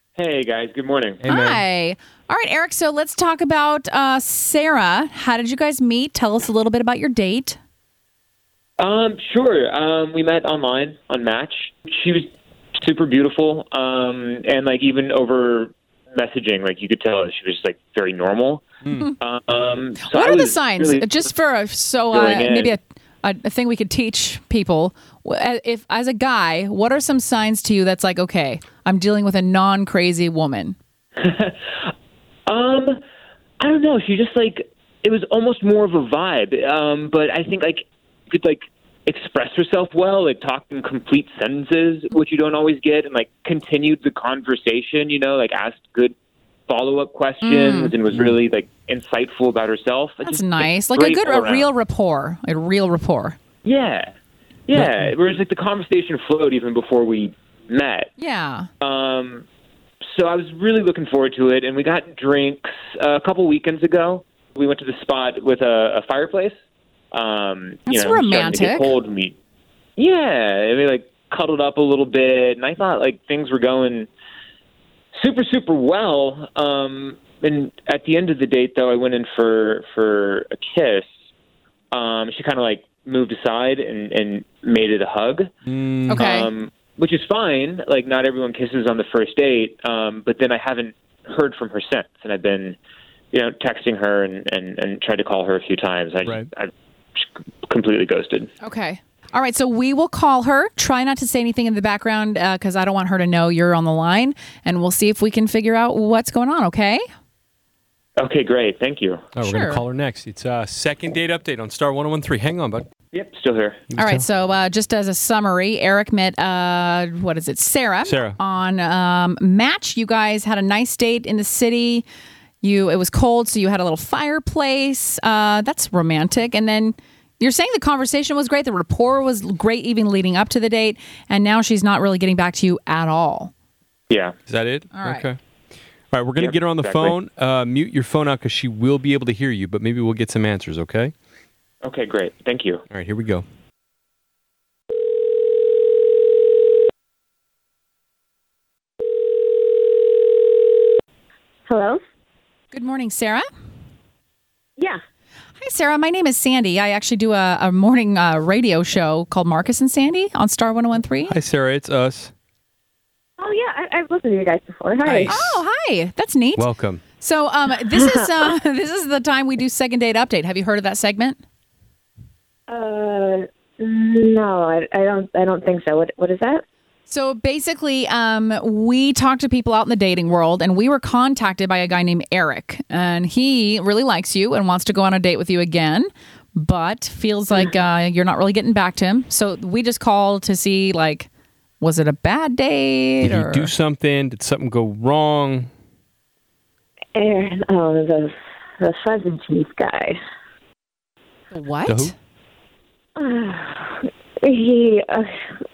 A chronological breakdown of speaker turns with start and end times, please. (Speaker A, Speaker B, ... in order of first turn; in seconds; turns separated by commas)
Speaker A: 0.2-1.2, Speaker B: 1.2-1.6, Speaker C: 1.2-7.6, Speaker A: 8.8-18.7, Speaker B: 18.8-19.1, Speaker A: 19.2-21.3, Speaker C: 20.1-30.8, Speaker A: 22.1-22.8, Speaker A: 31.2-31.7, Speaker A: 32.5-33.0, Speaker A: 33.6-46.1, Speaker A: 46.7-51.7, Speaker C: 47.4-47.9, Speaker C: 50.2-53.4, Speaker A: 53.6-54.1, Speaker A: 54.7-58.1, Speaker C: 58.2-58.7, Speaker A: 58.8-59.4, Speaker A: 60.0-66.5, Speaker A: 67.1-69.4, Speaker C: 67.9-68.9, Speaker A: 70.0-74.1, Speaker A: 75.1-81.1, Speaker A: 81.9-85.5, Speaker B: 85.7-86.3, Speaker C: 86.1-86.5, Speaker A: 86.2-92.8, Speaker A: 93.3-98.5, Speaker C: 98.6-107.0, Speaker A: 108.2-109.3, Speaker B: 109.3-112.9, Speaker C: 109.4-109.8, Speaker A: 113.1-113.8, Speaker B: 113.9-114.2, Speaker C: 114.0-122.0, Speaker B: 118.0-118.4, Speaker C: 122.6-133.5, Speaker A: 134.1-134.3, Speaker B: 134.5-135.4, Speaker C: 134.9-135.3, Speaker B: 136.1-141.1, Speaker A: 136.4-137.2, Speaker A: 141.8-142.8, Speaker B: 142.9-143.4, Speaker D: 151.7-152.0, Speaker C: 152.7-153.4, Speaker C: 155.6-161.3, Speaker B: 161.3-162.3, Speaker D: 163.4-165.4, Speaker B: 165.0-165.6, Speaker C: 165.3-171.4, Speaker B: 166.6-167.0, Speaker D: 167.9-168.3, Speaker D: 172.7-176.6, Speaker C: 177.1-191.3, Speaker C: 191.8-193.7, Speaker B: 193.2-195.7, Speaker D: 197.1-200.2, Speaker C: 201.5-202.1, Speaker B: 201.8-202.1, Speaker D: 203.2-205.3